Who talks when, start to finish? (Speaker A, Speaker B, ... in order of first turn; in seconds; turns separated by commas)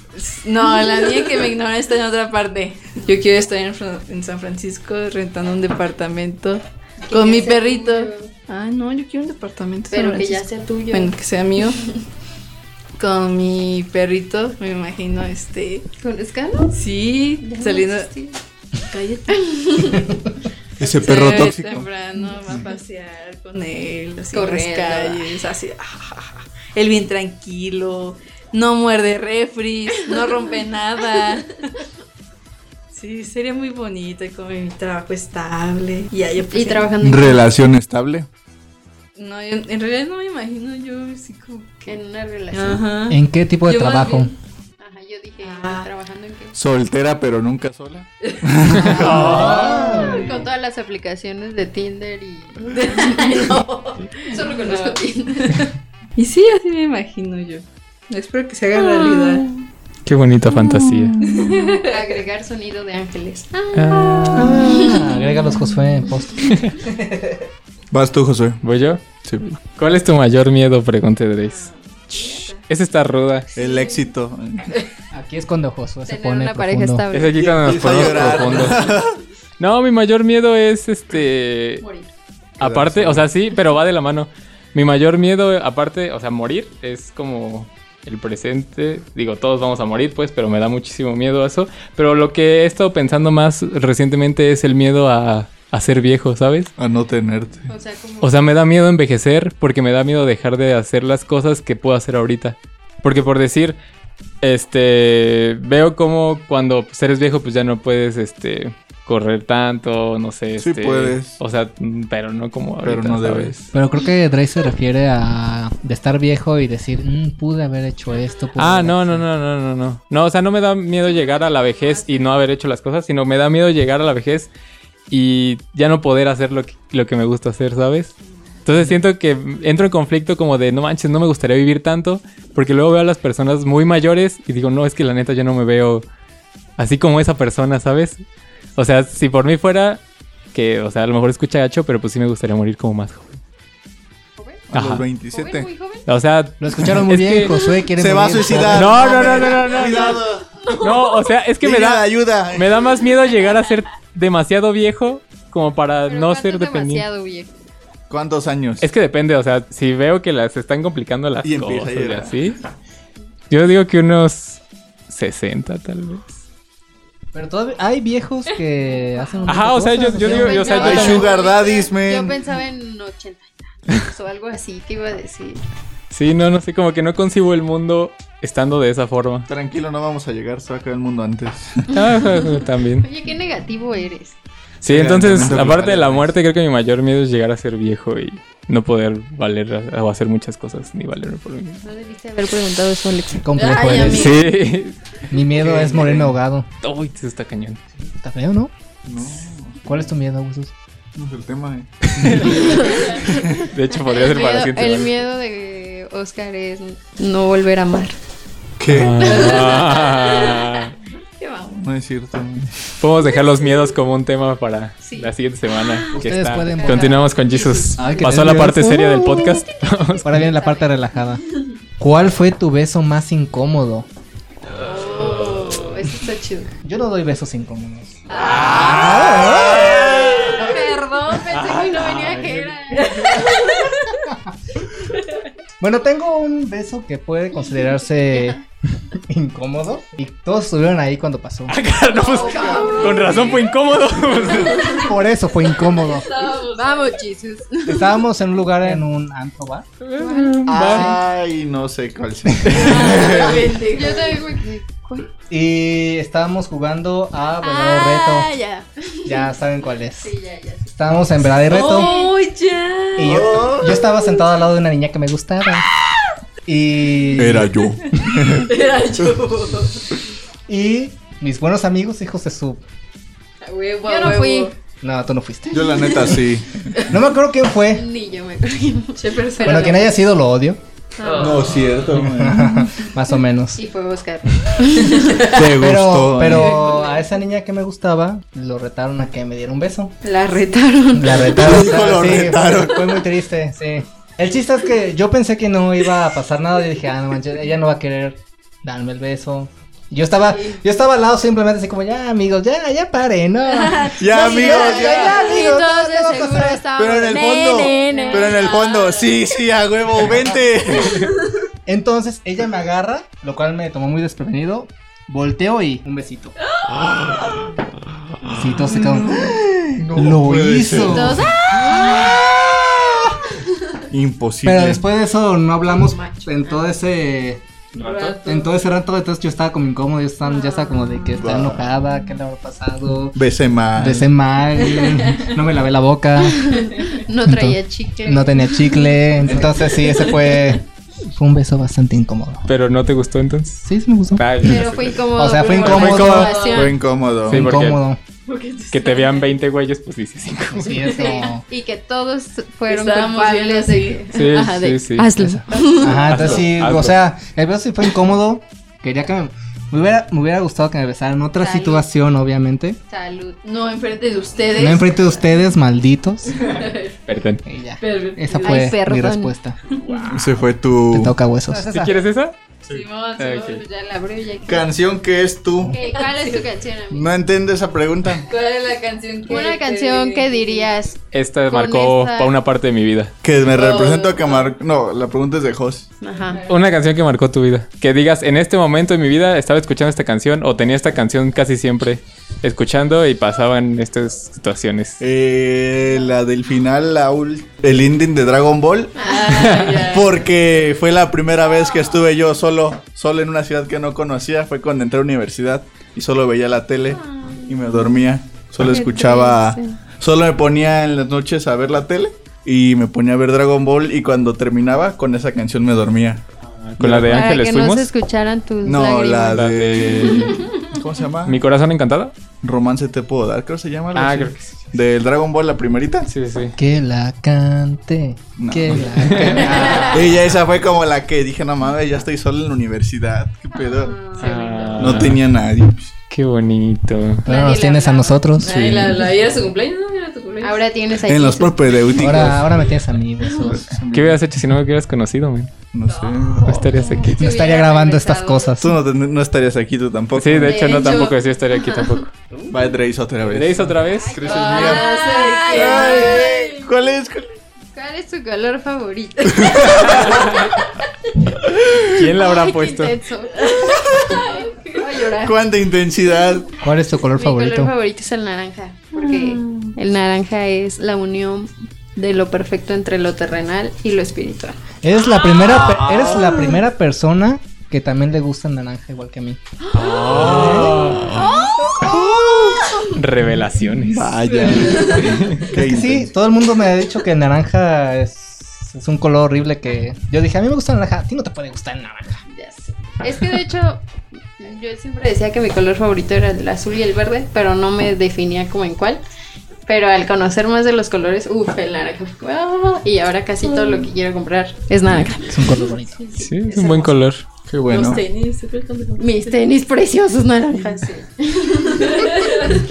Speaker A: 0.1-11.9, Speaker B: 7.0-8.3, Speaker B: 9.9-11.1, Speaker A: 13.0-15.8, Speaker B: 16.0-16.8, Speaker A: 16.7-18.1, Speaker B: 17.4-18.4, Speaker A: 18.8-20.1, Speaker B: 19.7-20.0, Speaker C: 20.8-21.9, Speaker A: 20.8-31.8, Speaker B: 24.3-25.4, Speaker A: 32.9-37.0, Speaker B: 36.4-37.5, Speaker C: 37.0-38.3, Speaker A: 39.1-42.0, Speaker B: 41.9-42.8, Speaker A: 42.5-44.3, Speaker D: 43.1-44.3, Speaker B: 44.8-46.5, Speaker A: 45.4-45.9, Speaker C: 46.5-49.4, Speaker A: 48.2-50.5, Speaker E: 48.8-50.0, Speaker D: 48.8-50.3, Speaker B: 49.3-55.7, Speaker A: 52.7-59.6, Speaker B: 58.8-59.4, Speaker E: 60.0-61.2, Speaker B: 60.7-65.0, Speaker A: 61.2-62.1, Speaker E: 63.7-64.7, Speaker D: 64.3-67.5, Speaker A: 64.9-65.4, Speaker E: 66.4-66.8, Speaker C: 67.9-68.6, Speaker E: 68.6-69.0, Speaker E: 69.6-73.5, Speaker A: 72.1-72.6, Speaker B: 73.5-74.1, Speaker C: 73.5-74.7, Speaker D: 75.1-77.0, Speaker B: 76.0-77.4, Speaker E: 77.1-78.9, Speaker C: 77.3-79.2, Speaker E: 79.6-81.8, Speaker C: 82.6-83.3, Speaker E: 82.6-96.7, Speaker C: 96.8-97.7, Speaker B: 97.7-98.3, Speaker E: 98.2-103.8, Speaker E: 104.4-113.7, Speaker C: 110.6-111.3, Speaker C: 112.8-113.6, Speaker D: 113.7-119.2, Speaker E: 118.6-124.5, Speaker B: 121.0-122.4, Speaker E: 125.1-128.1, Speaker E: 128.6-136.0, Speaker E: 136.8-138.2, Speaker E: 138.8-140.0, Speaker E: 140.5-143.4, Speaker C: 144.7-145.7, Speaker E: 144.7-145.1, Speaker B: 145.3-146.0, Speaker E: 146.1-147.5, Speaker D: 146.6-149.4, Speaker C: 148.0-150.5, Speaker E: 148.7-150.2, Speaker A: 150.7-151.1, Speaker E: 150.7-157.0, Speaker C: 151.6-152.8, Speaker B: 156.1-157.5, Speaker C: 158.1-158.9, Speaker E: 158.8-162.6, Speaker C: 161.4-162.4, Speaker E: 163.5-166.3, Speaker D: 167.3-171.2, Speaker E: 169.4-171.3, Speaker B: 170.2-175.6, Speaker C: 170.7-172.4, Speaker E: 176.1-179.5, Speaker C: 179.5-181.9, Speaker E: 181.9-183.1, Speaker B: 183.0-184.4, Speaker E: 184.8-191.8, Speaker C: 184.9-186.3, Speaker B: 191.8-194.2, Speaker D: 193.4-194.4, Speaker A: 193.6-194.3, Speaker E: 194.0-194.9, Speaker D: 195.3-196.7, Speaker C: 195.6-196.3, Speaker E: 196.8-197.8, Speaker D: 198.0-198.7, Speaker C: 199.0-199.9, Speaker D: 199.8-200.7, Speaker C: 201.2-203.6, Speaker E: 202.1-205.1, Speaker B: 202.5-203.3, Speaker B: 204.0-208.2, Speaker C: 208.8-209.6, Speaker E: 208.9-210.9, Speaker B: 209.2-209.9, Speaker A: 209.3-210.6, Speaker A: 211.4-211.8, Speaker C: 211.7-212.9, Speaker E: 213.0-220.5, Speaker B: 215.0-215.3, Speaker D: 216.1-217.2, Speaker B: 216.7-218.2, Speaker D: 218.0-219.5, Speaker B: 219.3-220.9, Speaker D: 220.2-221.4, Speaker D: 222.0-224.1, Speaker B: 224.8-226.7, Speaker D: 226.8-230.3, Speaker A: 228.3-229.1, Speaker E: 228.3-230.8, Speaker B: 228.4-229.0, Speaker B: 229.9-233.9, Speaker E: 231.4-233.4, Speaker A: 233.1-234.2, Speaker D: 235.8-238.6, Speaker D: 239.1-241.8, Speaker E: 241.7-245.0, Speaker B: 242.2-243.6, Speaker A: 242.4-243.4, Speaker A: 244.5-245.0, Speaker B: 244.6-245.0, Speaker D: 244.9-246.3, Speaker A: 246.0-247.2, Speaker B: 246.4-248.2, Speaker D: 247.8-249.9, Speaker E: 250.0-251.2, Speaker B: 250.2-250.7, Speaker C: 250.7-253.7, Speaker D: 250.9-251.2, Speaker E: 252.7-252.9, Speaker A: 252.7-254.4, Speaker B: 253.9-255.3, Speaker D: 255.5-258.5, Speaker A: 257.8-258.8, Speaker B: 257.8-259.3, Speaker D: 259.2-260.3, Speaker B: 260.2-260.9, Speaker D: 260.9-262.1, Speaker A: 261.6-263.4, Speaker B: 261.9-262.3, Speaker D: 263.1-265.9, Speaker C: 263.2-264.0, Speaker D: 266.6-267.7, Speaker C: 267.3-269.3, Speaker A: 268.3-270.1, Speaker D: 270.7-272.8, Speaker A: 273.6-274.7, Speaker B: 274.0-274.7, Speaker D: 275.0-276.4, Speaker C: 275.7-276.9, Speaker D: 277.0-278.1, Speaker B: 277.9-280.0, Speaker A: 279.1-280.1, Speaker D: 279.6-280.8, Speaker B: 281.2-281.8, Speaker A: 281.2-281.7, Speaker C: 281.3-282.8, Speaker D: 282.1-283.8, Speaker B: 283.8-285.5, Speaker C: 285.4-286.9, Speaker D: 285.6-290.1, Speaker B: 290.2-291.5, Speaker D: 291.1-306.8, Speaker C: 291.4-293.2, Speaker B: 300.5-300.8, Speaker A: 303.7-304.4, Speaker C: 304.2-305.4, Speaker B: 304.3-309.3, Speaker C: 306.9-311.3, Speaker A: 308.1-309.1, Speaker D: 311.9-316.5, Speaker A: 316.8-317.7, Speaker D: 318.4-319.6, Speaker A: 318.9-319.5, Speaker C: 319.3-321.4, Speaker D: 320.1-322.2, Speaker B: 320.9-322.5, Speaker C: 324.1-325.0, Speaker D: 324.6-327.6, Speaker B: 325.9-326.8, Speaker E: 327.9-328.4, Speaker A: 327.9-328.6, Speaker D: 328.4-333.4, Speaker B: 330.5-331.4, Speaker C: 331.4-331.9, Speaker C: 333.3-334.3, Speaker D: 333.9-336.8, Speaker A: 334.9-335.5, Speaker B: 336.4-339.0, Speaker D: 337.4-342.7, Speaker E: 342.7-346.6, Speaker D: 343.8-346.5, Speaker B: 344.6-347.0, Speaker A: 346.3-346.9, Speaker C: 346.7-347.6, Speaker E: 347.4-348.0, Speaker D: 347.4-348.2, Speaker A: 348.4-349.5, Speaker E: 348.9-351.3, Speaker D: 350.7-351.6, Speaker A: 351.1-351.4, Speaker B: 351.4-356.5, Speaker A: 352.9-354.8, Speaker E: 354.3-355.3, Speaker D: 355.4-363.0, Speaker A: 355.7-356.2, Speaker E: 356.1-357.1, Speaker B: 361.6-362.0, Speaker B: 363.1-363.6, Speaker A: 363.6-365.3, Speaker D: 364.7-366.8, Speaker A: 366.6-367.1, Speaker E: 367.3-367.6, Speaker D: 367.6-369.8, Speaker A: 368.0-368.9, Speaker B: 368.6-369.5, Speaker A: 369.9-370.2, Speaker E: 370.0-370.4, Speaker C: 370.3-371.4, Speaker D: 371.1-372.2, Speaker E: 371.7-372.6, Speaker A: 372.9-373.9, Speaker E: 373.4-373.8, Speaker B: 373.5-374.9, Speaker C: 374.6-376.0, Speaker B: 375.9-377.3, Speaker A: 376.0-376.6, Speaker C: 377.1-378.5, Speaker A: 378.4-380.9, Speaker B: 379.5-382.5, Speaker E: 381.3-383.3, Speaker C: 383.4-386.1, Speaker A: 383.7-384.7, Speaker B: 386.2-386.6, Speaker A: 386.4-386.8, Speaker E: 386.7-395.2, Speaker C: 395.2-399.3, Speaker B: 399.1-399.9, Speaker A: 399.2-400.4, Speaker E: 399.5-400.0, Speaker C: 399.9-416.4, Speaker B: 407.2-407.7, Speaker B: 408.8-410.0, Speaker E: 416.7-418.1, Speaker C: 417.0-417.5, Speaker B: 417.3-420.6, Speaker C: 418.8-421.6, Speaker E: 419.5-420.7, Speaker E: 421.4-422.3, Speaker C: 422.6-426.3, Speaker E: 424.1-424.7, Speaker E: 426.3-426.8, Speaker D: 426.8-430.4, Speaker C: 428.6-434.2, Speaker E: 429.1-430.1, Speaker A: 429.7-430.1, Speaker B: 433.7-435.2, Speaker E: 434.4-435.4, Speaker C: 435.0-436.1, Speaker E: 436.3-437.4, Speaker B: 437.4-438.4, Speaker D: 437.4-439.0, Speaker A: 438.6-440.8, Speaker E: 438.6-439.2, Speaker B: 440.6-442.1, Speaker C: 441.2-442.9, Speaker D: 442.1-443.9, Speaker C: 443.5-444.4, Speaker E: 444.1-445.7, Speaker C: 445.9-446.9, Speaker A: 446.1-446.7, Speaker E: 446.6-447.5, Speaker B: 446.9-448.8, Speaker D: 447.4-448.9, Speaker C: 448.8-451.2, Speaker E: 450.3-452.3, Speaker B: 450.6-452.2, Speaker C: 452.7-455.1, Speaker E: 453.4-455.0, Speaker B: 454.1-456.7, Speaker A: 454.4-456.7, Speaker C: 455.7-457.6, Speaker B: 457.9-460.7, Speaker C: 459.6-460.2, Speaker E: 459.9-460.7, Speaker E: 462.0-463.1, Speaker B: 462.2-465.6, Speaker A: 463.6-465.1, Speaker C: 465.4-466.7, Speaker D: 466.8-467.9, Speaker B: 467.3-474.8, Speaker A: 469.1-469.9, Speaker D: 475.0-479.6, Speaker C: 476.1-476.5, Speaker E: 479.9-481.4, Speaker C: 480.2-483.1, Speaker D: 480.3-481.2, Speaker B: 481.2-482.6, Speaker A: 481.3-482.0, Speaker A: 482.9-483.1, Speaker E: 483.1-484.5, Speaker C: 484.0-486.3, Speaker A: 484.4-485.5, Speaker E: 485.0-485.7, Speaker D: 485.7-492.4, Speaker B: 492.5-494.0, Speaker B: 494.6-499.2, Speaker B: 499.9-507.2, Speaker A: 503.7-504.1, Speaker D: 505.5-506.1, Speaker E: 506.4-507.4, Speaker C: 507.7-508.2, Speaker A: 507.9-509.5, Speaker B: 509.2-512.7, Speaker A: 512.0-512.7